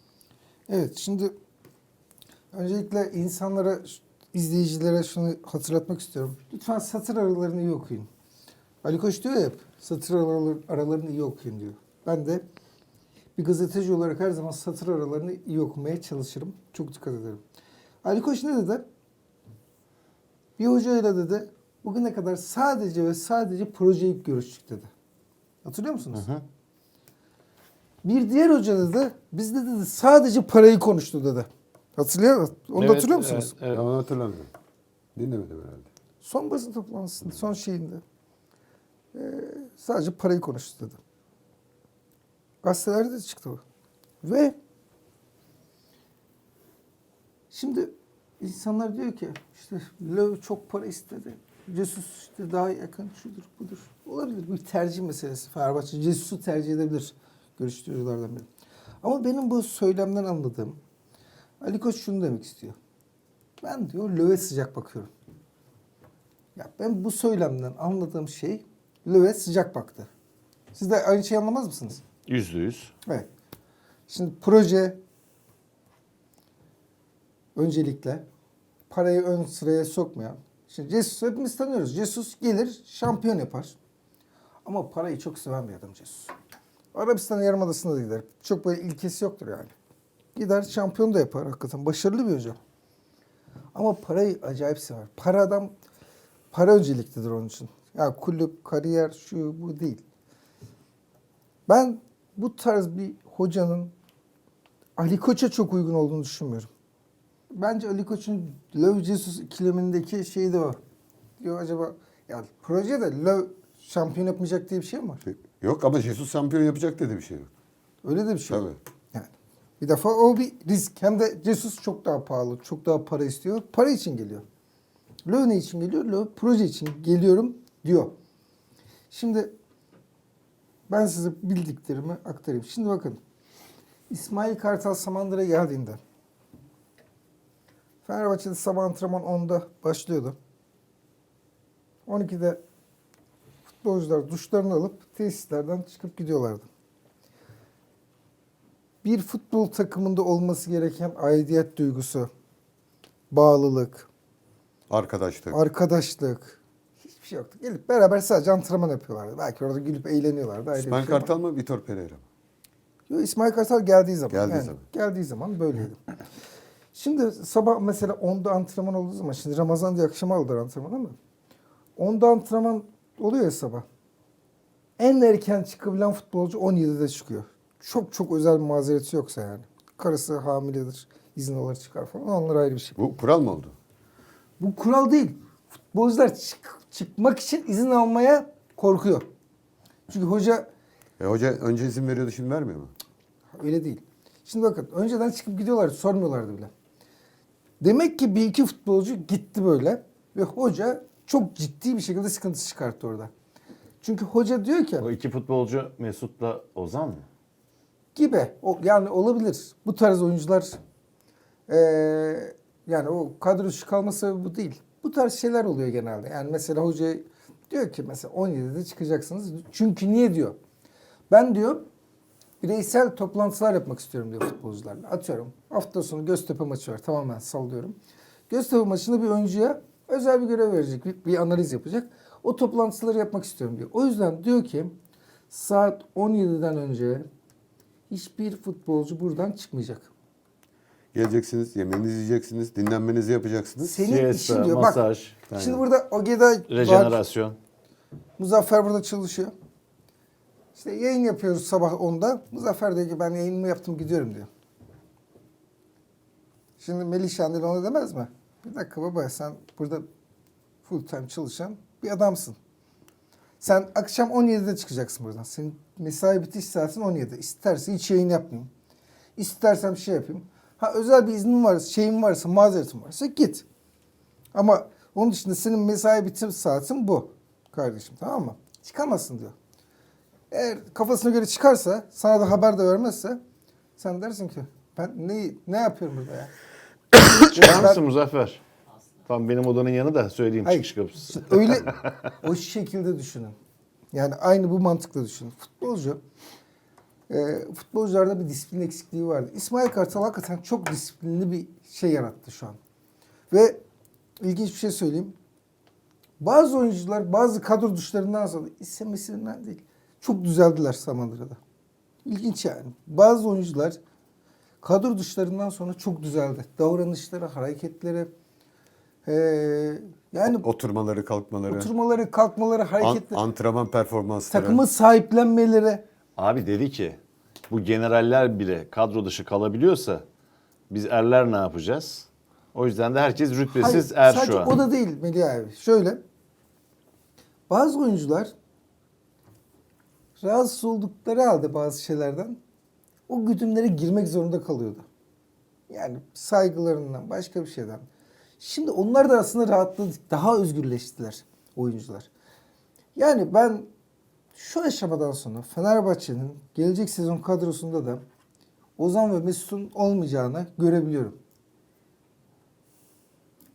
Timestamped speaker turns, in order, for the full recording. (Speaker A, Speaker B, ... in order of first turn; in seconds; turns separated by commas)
Speaker A: 0.7-1.3, Speaker A: 2.5-8.1, Speaker A: 8.8-12.4, Speaker A: 13.3-17.4, Speaker A: 18.0-18.8, Speaker A: 20.6-24.9, Speaker A: 25.6-26.2, Speaker B: 26.1-26.4, Speaker A: 28.0-33.6, Speaker B: 32.8-33.8, Speaker C: 33.7-34.5, Speaker C: 35.1-35.9, Speaker A: 36.2-38.0, Speaker A: 39.1-41.0, Speaker A: 42.6-43.6, Speaker A: 44.2-44.5, Speaker A: 47.5-58.5, Speaker A: 59.0-60.8, Speaker A: 61.6-62.8, Speaker A: 63.6-65.1, Speaker A: 66.5-70.1, Speaker A: 70.7-72.0, Speaker B: 72.3-72.9, Speaker A: 74.1-75.0, Speaker A: 77.5-78.2, Speaker A: 78.9-83.7, Speaker A: 84.6-86.3, Speaker A: 86.9-89.7, Speaker A: 90.3-92.6, Speaker A: 93.7-95.7, Speaker A: 96.5-100.0, Speaker A: 101.7-103.9, Speaker A: 105.0-106.7, Speaker A: 107.5-110.8, Speaker A: 111.4-115.2, Speaker C: 115.2-117.5, Speaker A: 118.0-124.4, Speaker C: 118.5-118.8, Speaker A: 125.2-128.1, Speaker A: 129.1-129.5, Speaker A: 130.9-133.2, Speaker A: 134.1-136.0, Speaker A: 138.0-140.4, Speaker A: 142.1-142.6, Speaker A: 143.8-146.7, Speaker A: 149.0-152.3, Speaker A: 153.3-154.1, Speaker C: 154.9-155.6, Speaker A: 155.5-161.3, Speaker C: 160.7-162.2, Speaker A: 163.1-166.1, Speaker C: 164.3-164.8, Speaker A: 166.9-171.2, Speaker A: 171.9-173.8, Speaker A: 175.0-183.0, Speaker C: 183.0-183.7, Speaker A: 184.6-189.2, Speaker A: 190.1-190.7, Speaker C: 191.2-192.9, Speaker A: 193.5-196.7, Speaker A: 197.8-203.3, Speaker A: 204.0-205.1, Speaker B: 205.0-207.2, Speaker A: 208.1-210.8, Speaker A: 211.7-220.6, Speaker A: 221.3-221.9, Speaker A: 222.6-227.9, Speaker A: 228.5-234.9, Speaker A: 235.5-237.3, Speaker A: 238.1-240.1, Speaker C: 241.1-244.0, Speaker A: 243.8-247.2, Speaker B: 244.0-245.3, Speaker C: 245.5-245.8, Speaker B: 246.7-247.6, Speaker A: 248.4-249.5, Speaker A: 250.7-254.5, Speaker A: 256.8-260.0, Speaker A: 260.8-262.6, Speaker A: 263.6-268.7, Speaker A: 269.4-273.6, Speaker A: 274.5-279.5, Speaker A: 280.5-283.4, Speaker A: 284.0-286.5, Speaker B: 287.5-288.6, Speaker A: 287.5-288.0, Speaker B: 289.3-292.1, Speaker A: 290.6-293.5, Speaker A: 294.1-296.2, Speaker A: 297.3-302.8, Speaker A: 303.5-303.8, Speaker A: 304.4-305.3, Speaker A: 306.4-311.6, Speaker A: 312.2-314.0, Speaker A: 314.8-318.3, Speaker A: 319.2-320.7, Speaker C: 320.5-321.9, Speaker A: 321.7-323.4, Speaker C: 323.0-324.8, Speaker A: 324.5-326.0, Speaker B: 326.4-327.2, Speaker B: 327.7-330.2, Speaker B: 330.9-334.7, Speaker A: 333.8-336.2, Speaker A: 337.7-338.5, Speaker A: 340.4-342.6, Speaker A: 343.3-345.0, Speaker A: 345.9-348.0, Speaker A: 348.6-352.3, Speaker A: 353.1-353.9, Speaker A: 354.5-358.2, Speaker A: 359.0-361.4